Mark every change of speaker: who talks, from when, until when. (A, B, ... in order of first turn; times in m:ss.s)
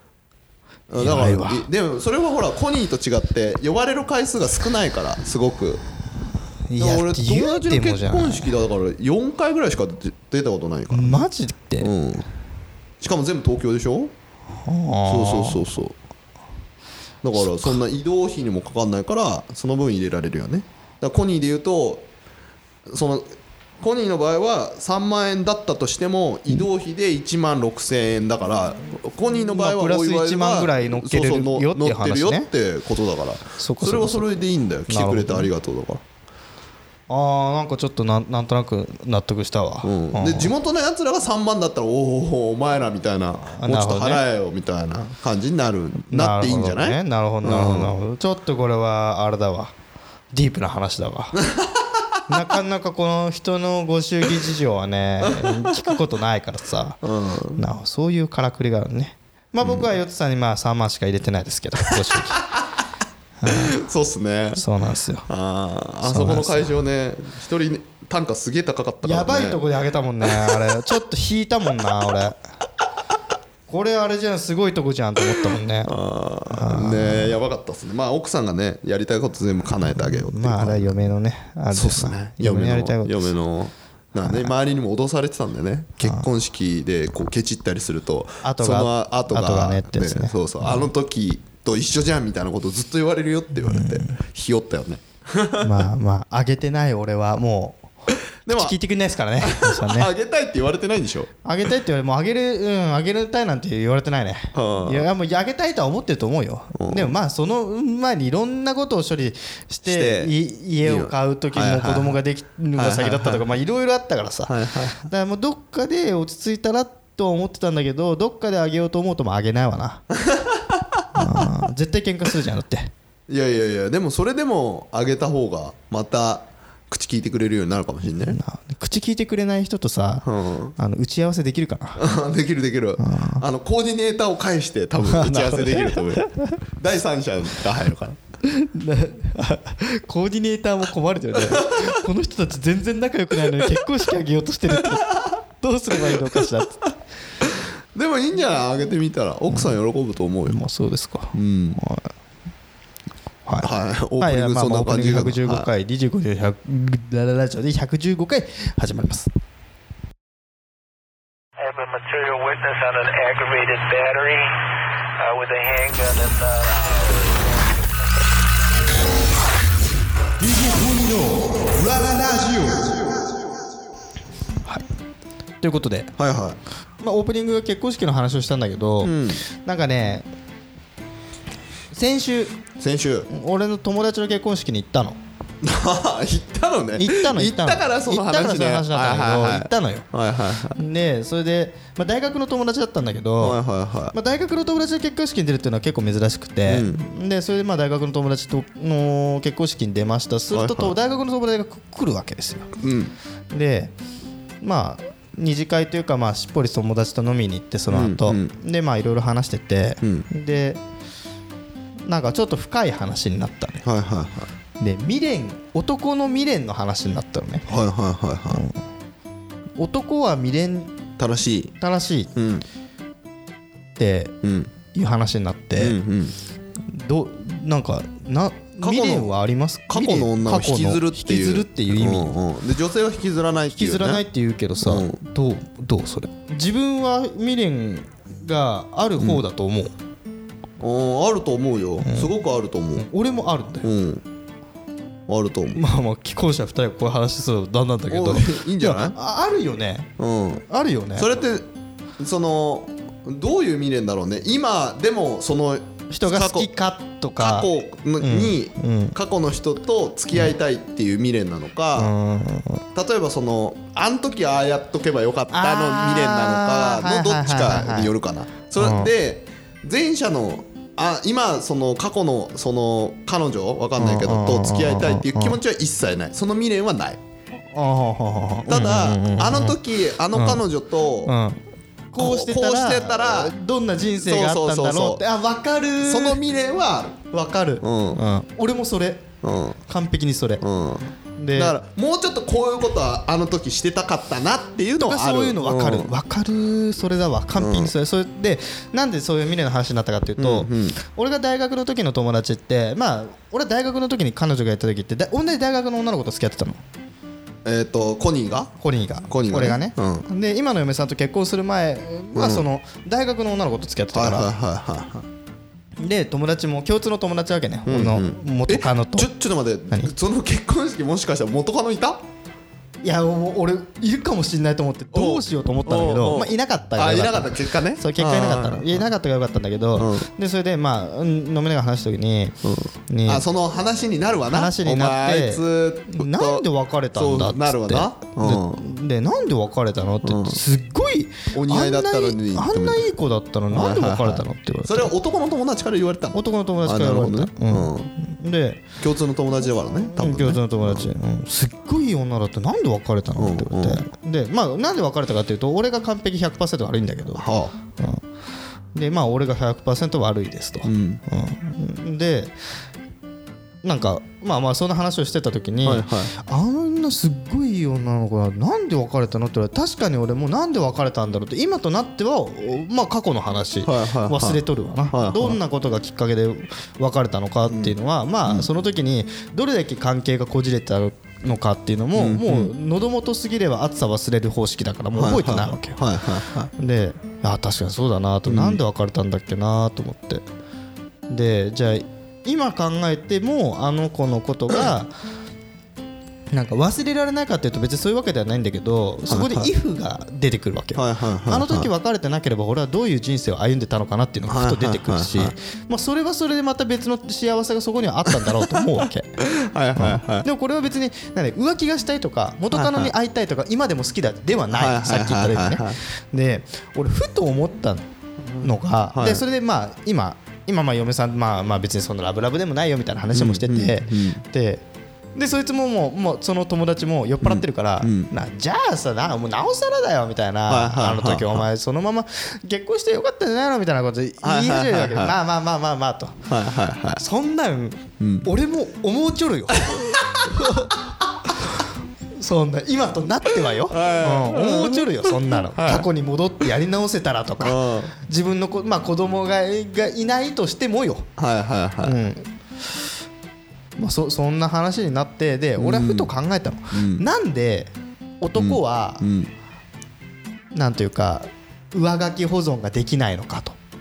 0:00.9-0:05.8 A
0:01.0-0:01.7 B
0:06.7-0:08.5 B
0:06.8-0:11.3 A
0:10.9-0:11.9 B
0:11.8-0:12.2 A
0:13.0-0:14.1 A
0:14.6-0:15.6 B
0:15.1-0:16.0 A
0:17.2-0:22.1 A
0:22.8-0:23.3 A
0:23.8-0:36.0 A
0:29.5-0:32.5 B
0:33.6-0:34.3 B
0:34.9-0:35.5 B
0:37.1-0:40.5 B
0:39.8-0:47.9 A
0:43.5-0:44.2 B
0:46.1-0:49.7 B
0:50.3-0:51.4 B
0:51.5-0:51.8 A
0:52.3-0:57.0 B
0:55.2-0:55.9 A
0:57.0-0:57.6 A
0:57.6-1:02.4 B
0:59.6-0:59.9 A
1:01.9-1:02.6 A
1:03.4-1:03.7 B
1:03.4-1:04.6 A
1:04.5-1:05.3 B
1:05.3-1:09.6 A
1:06.0-1:06.7 B
1:09.0-1:12.4 B
1:10.2-1:10.6 A
1:13.7-1:16.0 B
1:15.9-1:21.0 A
1:16.5-1:17.4 B
1:19.9-1:23.3 B
1:21.7-1:35.8 A
1:26.0-1:26.2 B
1:28.4-1:30.9 B
1:33.6-1:34.2 B
1:35.6-1:37.8 B
1:38.4-1:38.8 A
1:38.5-1:40.1 B
1:39.4-1:41.3 A
1:41.4-2:00.0 B
1:44.5-1:45.1 A
1:46.7-1:47.1 A
1:49.8-1:52.2 A
1:52.8-1:53.4 A
1:54.5-1:55.0 A
2:00.2-2:01.5 A
2:01.1-2:02.9 B
2:03.3-2:08.4 A
2:08.2-2:10.2 B
2:10.2-2:10.7 A
2:10.8-2:12.0 B
2:12.0-2:18.2 A
2:13.0-2:13.4 B
2:15.0-2:16.6 B
2:18.4-2:26.9 B
2:21.4-2:22.0 A
2:24.8-2:25.3 A
2:26.0-2:26.5 A
2:27.4-2:30.6 A
2:30.5-2:32.0 B
2:31.3-2:31.8 A
2:33.4-2:39.3 B
2:33.6-2:35.7 A
2:41.6-2:44.6 C
2:45.2-2:47.8 C
2:50.4-2:52.9 B
2:55.6-2:56.1 B
2:56.2-2:56.6 A
2:57.0-3:00.2 B
2:59.0-2:59.4 A
3:01.9-3:02.6 B
3:02.8-3:03.3 A
3:03.3-3:05.2 B
3:05.6-3:10.8 A
3:07.0-3:10.1 B
3:10.7-3:13.6 B
3:13.4-3:14.1 A
3:14.1-3:22.7 B
3:16.7-3:17.0 A
3:20.5-3:21.0 A
3:22.8-3:23.1 A
3:23.5-3:23.9 B
3:24.6-3:30.8 B
3:27.9-3:28.5 A
3:30.0-3:30.3 A
3:32.0-3:33.8 B
3:33.8-3:34.5 A
3:34.8-3:37.7 B
3:37.7-3:38.6 A
3:38.5-3:38.8 B
3:39.8-3:40.9 B
3:41.2-3:41.7 A
3:41.8-3:42.3 B
3:42.3-3:42.6 A
3:44.0-3:44.4 B
3:44.4-3:44.7 A
3:44.9-3:46.0 B
3:45.8-3:46.3 A
3:46.8-3:52.3 B
3:48.8-3:49.3 A
3:49.9-3:54.2 A
3:53.7-3:59.9 B
3:54.8-3:55.2 A
4:00.8-4:03.0 A
4:02.0-4:02.3 B
4:03.0-4:03.9 B
4:03.8-4:04.2 A
4:05.3-4:05.8 A
4:05.7-4:10.1 B
4:08.1-4:09.1 A
4:10.2-4:10.6 A
4:10.7-4:11.3 B
4:11.2-4:11.7 A
4:12.2-4:16.7 A
4:16.1-4:17.7 B
4:17.4-4:22.1 A
4:18.2-4:19.2 B
4:21.9-4:22.8 B
4:22.9-4:37.2 A
4:25.5-4:28.1 B
4:28.8-4:29.1 B
4:34.0-4:35.6 B
4:37.7-4:39.8 B
4:38.7-4:41.3 A
4:40.3-4:40.6 B
4:41.2-4:41.6 B
4:42.1-4:46.4 B
4:42.2-4:43.5 A
4:44.2-4:45.2 A
4:46.0-4:47.3 A
4:47.3-4:49.3 B
4:47.8-4:48.2 A
4:49.4-4:49.8 A
4:49.9-4:50.6 B
4:50.6-4:56.1 A
4:51.4-4:51.8 B
4:55.0-5:06.8 B
4:57.6-4:57.9 A
5:00.4-5:01.0 A
5:07.6-5:08.7 A
5:08.8-5:14.5 B
5:09.3-5:10.3 A
5:12.3-5:12.6 A
5:14.1-5:15.2 A
5:16.0-5:19.3 B
5:17.9-5:22.2 A
5:23.0-5:32.6 B
5:25.1-5:29.1 A
5:29.9-5:30.3 A
5:32.6-5:38.8 A
5:33.1-5:33.4 B
5:34.5-5:45.1 B
5:40.2-5:40.6 A
5:41.5-5:43.0 A
5:43.7-5:48.1 A
5:46.3-5:48.8 B
5:49.0-5:51.1 A
5:50.0-5:57.4 B
5:53.4-5:54.0 A
5:57.4-5:57.7 A
5:58.9-6:02.5 B
6:00.8-6:01.2 A
6:03.8-6:26.0 B
6:05.8-6:06.3 A
6:13.8-6:15.6 A
6:17.7-6:18.7 A
6:22.1-6:22.7 A
6:25.1-6:26.7 A
6:26.8-6:30.4 B
6:28.4-6:28.8 A
6:31.3-6:35.1 B
6:36.5-6:49.3 B
6:39.3-6:39.7 A
6:41.0-6:41.9 A
6:44.5-6:45.5 A
6:48.3-6:50.4 A
6:49.9-6:58.0 B
6:52.7-6:53.1 A
6:54.7-6:56.0 A
6:58.6-7:04.8 B
6:58.6-6:59.4 A
7:03.3-7:04.4 A
7:05.3-7:16.5 B
7:07.4-7:08.3 A
7:10.7-7:11.6 A
7:14.4-7:15.4 A
7:16.5-7:17.2 A
7:17.2-7:20.9 B
7:18.2-7:18.5 A
7:19.7-7:20.6 A
7:22.4-7:31.3 B
7:23.7-7:26.1 A
7:27.6-7:28.1 A
7:31.4-7:32.2 A
7:32.0-7:32.5 B
7:34.0-7:39.2 B
7:35.8-7:36.3 A
7:36.9-7:37.2 A
7:38.6-7:39.5 A
7:40.7-7:43.8 B